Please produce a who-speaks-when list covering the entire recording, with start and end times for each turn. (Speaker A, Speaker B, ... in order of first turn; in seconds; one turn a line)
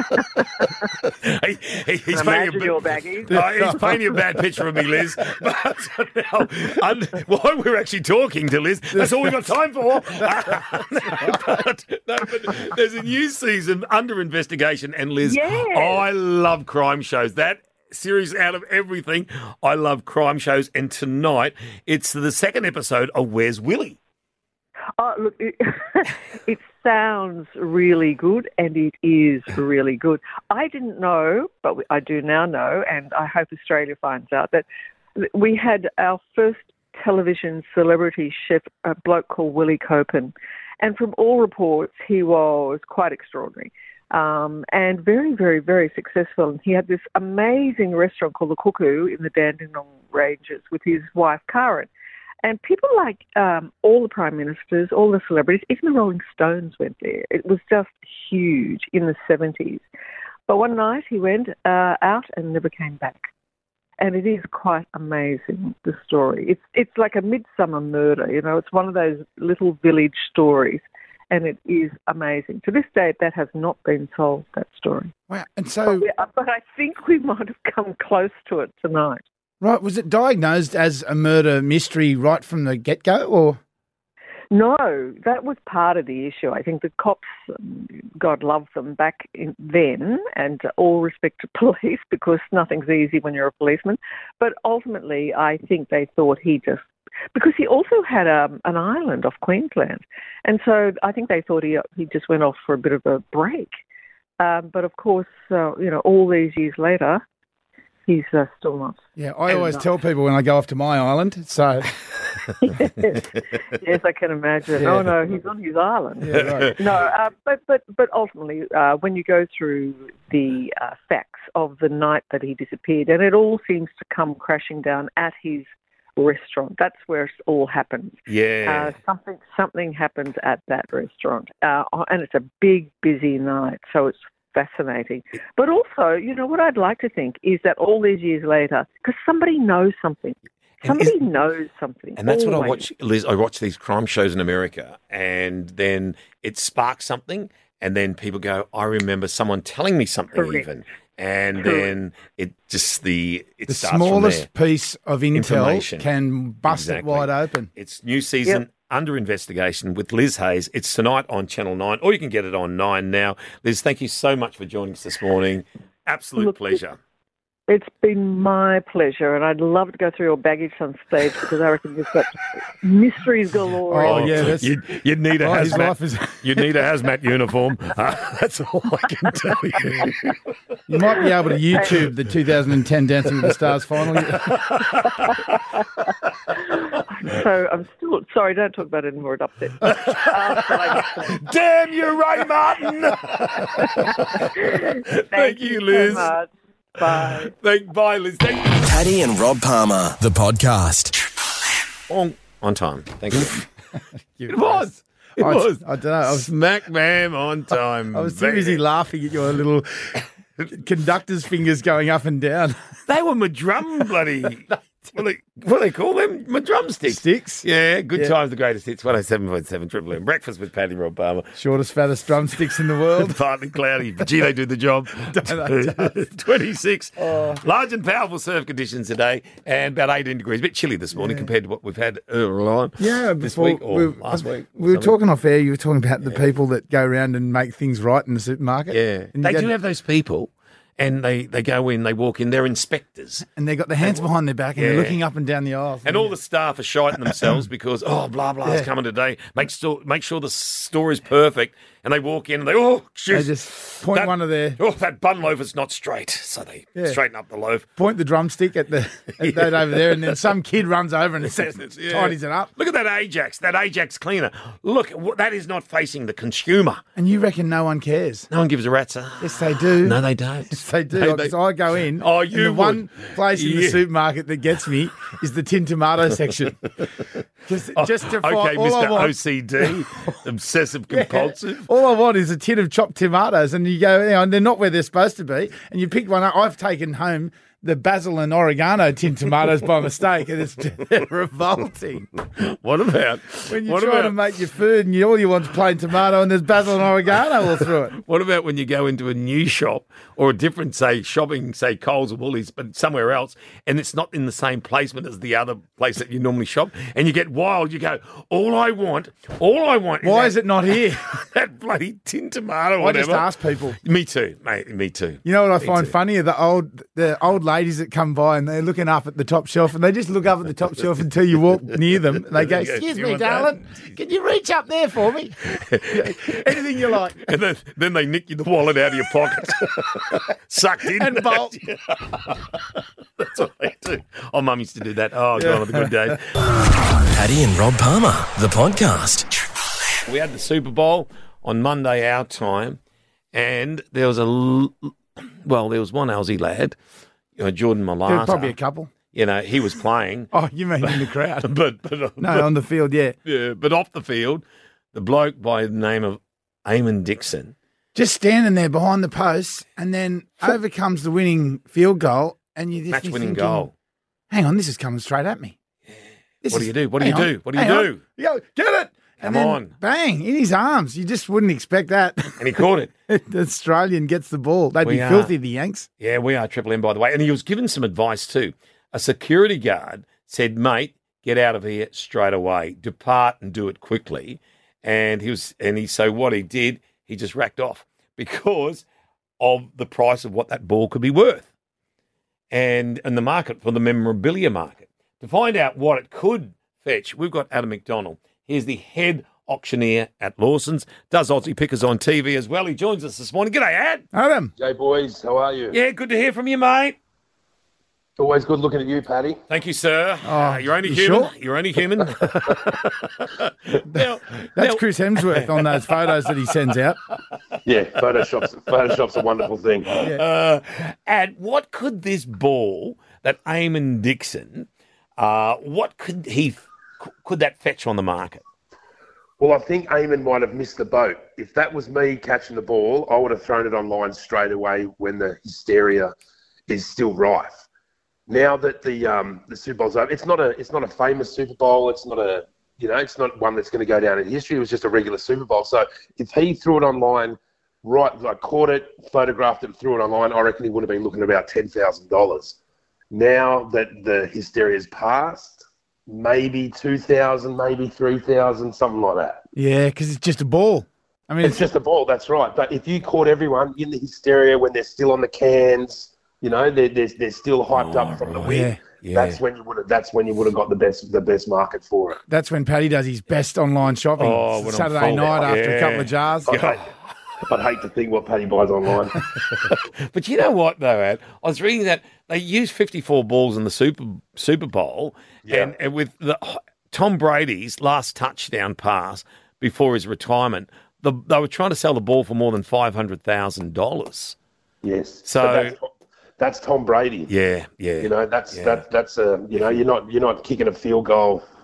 Speaker A: 1.0-24.0
Speaker B: 2.1-3.4
Speaker C: 3.3-4.2
Speaker C: 8.9-9.5
Speaker C: 10.2-11.4
Speaker B: 15.2-16.0
Speaker B: 25.0-34.6
Speaker B: 35.2-51.9
Speaker B: 52.4-59.8
Speaker B: 60.5-63.3
Speaker B: 64.0-75.1
Speaker C: 75.3-76.0
Speaker B: 75.8-79.2
Speaker C: 79.6-83.6
Speaker B: 84.5-103.7
Speaker B: 104.4-107.2
Speaker B: 108.1-109.8
Speaker C: 109.2-111.9
Speaker B: 112.6-142.8
Speaker C: 114.8-115.0
Speaker C: 116.2-116.8
Speaker A: 116.3-116.7
Speaker A: 128.3-128.9
Speaker A: 140.8-141.2
Speaker A: 142.2-154.5
Speaker B: 150.3-150.7
Speaker B: 151.6-151.9
Speaker C: 153.7-157.7
Speaker A: 155.3-156.1
Speaker A: 156.7-167.0
Speaker B: 166.4-166.8
Speaker B: 167.7-174.4
Speaker C: 173.9-174.8
Speaker A: 174.0-180.3
Speaker C: 175.4-176.7
Speaker C: 180.9-184.6
Speaker A: 184.1-185.4
Speaker B: 186.5-191.4
Speaker A: 189.8-196.3
Speaker B: 193.8-197.5
Speaker A: 197.5-198.8
Speaker D: 198.8-201.2
Speaker A: 202.1-203.7
Speaker C: 204.3-206.5
Speaker A: 204.5-208.8
Speaker C: 208.1-210.2
Speaker C: 210.7-212.8
Speaker A: 213.1-221.5
Speaker C: 217.1-218.3
Speaker C: 221.5-223.4
Speaker A: 223.2-235.1
Speaker C: 225.2-226.2
Speaker C: 227.2-227.6
Speaker C: 231.1-231.5
Speaker C: 233.0-239.7
Speaker A: 238.9-243.4
Speaker C: 243.4-246.3
Speaker A: 244.8-245.2
Speaker A: 246.0-257.9
Speaker C: 247.2-247.6
Speaker C: 253.3-254.8
Speaker C: 258.0-262.7
Speaker A: 259.4-260.4
Speaker A: 261.6-267.0
Speaker C: 267.1-268.5
Speaker A: 268.5-271.5
Speaker C: 269.4-276.9
Speaker A: 272.2-274.0
Speaker C: 277.7-280.1
Speaker A: 277.9-281.9
Speaker C: 281.1-292.3
Speaker A: 292.6-294.4
Speaker C: 293.7-298.1
Speaker A: 298.1-313.5
Speaker C: 310.2-311.3
Speaker C: 313.0-314.0
Speaker A: 314.0-316.1
Speaker C: 315.4-327.4
Speaker A: 322.6-324.1
Speaker A: 325.7-326.8
Speaker A: 327.4-336.5
Speaker C: 331.1-331.8
Speaker C: 335.6-336.4
Speaker D: 337.4-339.5
Speaker A: 340.2-343.0
Speaker A: 343.5-346.9
Speaker A: 347.6-348.7
Speaker C: 348.2-349.1
Speaker A: 349.3-350.5
Speaker C: 350.5-351.7
Speaker A: 351.0-352.7
Speaker C: 352.4-353.3
Speaker A: 353.4-354.6
Speaker A: 355.1-357.7
Speaker C: 358.1-363.9
Speaker A: 363.1-363.9
Speaker C: 364.5-365.8
Speaker C: 366.6-376.1
Speaker A: 366.7-368.2
Speaker A: 369.4-369.9
Speaker A: 372.6-373.1
Speaker A: 375.0-375.5
Speaker A: 376.2-389.0
Speaker A: 389.6-391.6
Speaker A: 392.7-404.2
Speaker C: 404.3-404.7
Speaker E: 404.8-406.0
Speaker A: 405.9-407.1
Speaker E: 408.4-409.6
Speaker A: 409.7-416.2
Speaker C: 410.4-411.5
Speaker C: 414.0-417.2
Speaker E: 417.8-420.1
Speaker A: 420.1-428.6
Speaker E: 429.6-436.3
Speaker E: 436.9-437.8
Speaker E: 438.5-452.8
Speaker E: 453.3-459.6
Speaker C: 459.7-461.8
Speaker E: 461.6-472.4
Speaker A: 467.9-469.6
Speaker C: 468.6-469.0
Speaker C: 472.5-476.7
Speaker A: 474.4-477.1
Speaker E: 476.7-477.1
Speaker E: 477.6-479.5
Speaker A: 480.2-494.6
Speaker E: 495.0-497.5
Speaker A: 495.4-495.9
Speaker A: 497.5-499.0
Speaker E: 498.2-501.6